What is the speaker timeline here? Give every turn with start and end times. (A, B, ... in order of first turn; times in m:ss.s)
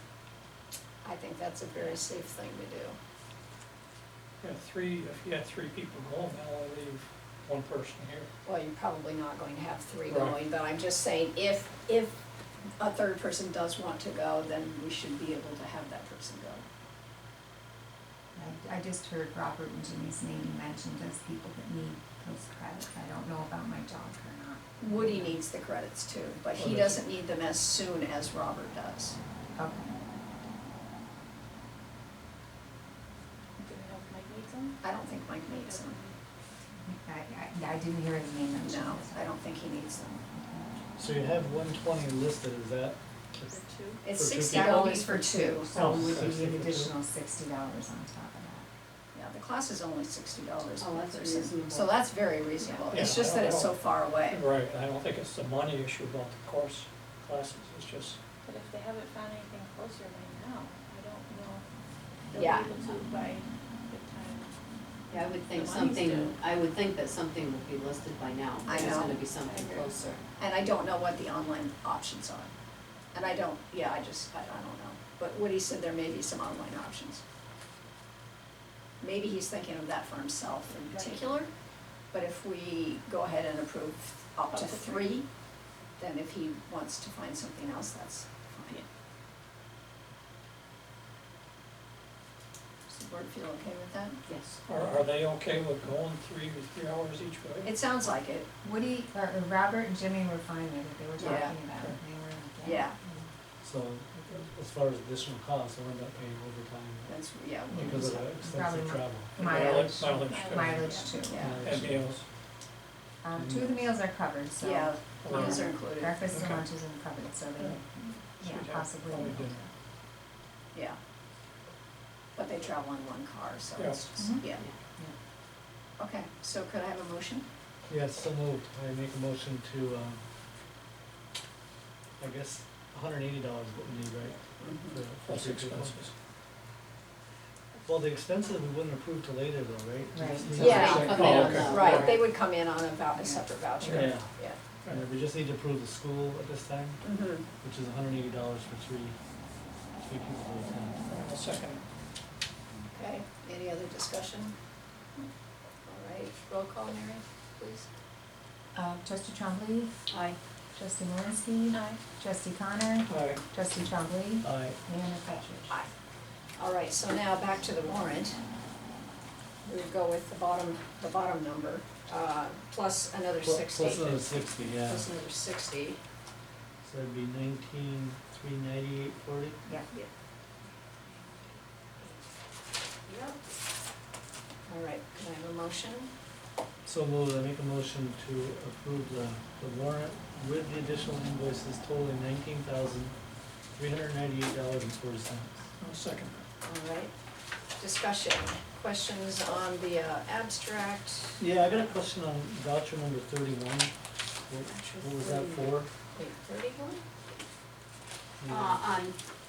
0:01.0-0:03.0 A
0:04.4-0:08.3 B
0:08.4-0:12.2 A
0:10.1-0:10.4 B
0:12.8-0:16.6 A
0:18.3-0:25.3 C
0:24.8-0:29.2 A
0:26.6-0:27.0 D
0:29.6-0:30.0 C
0:33.6-0:36.2 E
0:34.8-0:36.0 A
0:36.8-0:39.4 C
0:38.6-0:40.2 A
0:40.3-0:40.7 C
0:41.0-0:44.8 D
0:43.4-0:44.0 E
0:44.0-0:45.8 A
0:44.5-0:48.7 C
0:45.7-0:46.9 D
0:45.8-0:46.2 F
0:49.1-0:54.4 A
0:50.8-0:52.0 F
0:52.9-0:58.2 B
0:58.4-1:01.6 E
1:02.3-1:04.5 E
1:02.3-1:02.7 A
1:02.7-1:03.0 F
1:05.1-1:06.4 E
1:05.1-1:10.2 F
1:08.6-1:09.9 E
1:08.7-1:09.2 A
1:10.4-1:12.5 A
1:13.1-1:17.2 A
1:19.0-1:21.5 A
1:20.9-1:21.3 E
1:22.1-1:25.2 A
1:24.5-1:25.2 E
1:26.0-1:28.8 A
1:32.9-1:34.2 A
1:34.3-1:34.6 F
1:34.7-1:37.7 B
1:37.6-1:38.5 A
1:38.6-1:43.3 C
1:41.2-1:41.6 A
1:41.7-1:42.0 B
1:42.6-1:43.0 A
1:43.6-1:47.1 D
1:47.0-1:48.2 A
1:47.6-1:49.4 D
1:47.7-1:51.6 C
1:49.4-1:51.1 B
1:50.3-1:51.2 E
1:51.2-1:51.6 A
1:51.4-1:52.2 D
1:51.6-1:52.2 B
1:53.2-1:59.7 C
1:53.4-1:53.8 D
1:54.6-1:56.2 A
1:55.2-1:55.7 B
1:56.3-1:56.6 B
1:58.4-1:59.6 B
2:02.3-2:04.7 A
2:03.8-2:04.0 B
2:04.2-2:05.1 C
2:06.0-2:07.4 A
2:07.9-2:10.2 D
2:12.2-2:16.0 D
2:14.6-2:15.0 A
2:15.2-2:16.1 B
2:17.8-2:21.7 D
2:20.1-2:20.7 C
2:20.6-2:22.3 F
2:20.6-2:24.6 A
2:20.7-2:22.2 B
2:23.9-2:29.2 D
2:23.9-2:24.2 C
2:27.0-2:27.4 A
2:30.0-2:31.0 D
2:31.1-2:31.8 B
2:32.7-2:34.5 A
2:35.8-2:37.9 A
2:38.7-2:39.9 C
2:40.1-2:40.4 F
2:40.7-2:45.7 C
2:41.7-2:42.0 E
2:43.1-2:43.4 B
2:44.4-2:44.8 D
2:46.6-2:48.3 A
2:49.6-2:56.0 A
2:53.4-2:55.1 D
2:56.8-2:59.6 D
2:59.6-2:59.9 C
3:03.0-3:03.4 A
3:04.7-3:06.1 A
3:06.8-3:13.2 D
3:13.7-3:15.6 D
3:15.8-3:16.4 B
3:16.6-3:17.1 A
3:17.8-3:21.4 A
3:21.4-3:23.9 D
3:24.5-3:25.9 D
3:24.6-3:27.0 A
3:28.4-3:28.8 D
3:28.5-3:29.2 F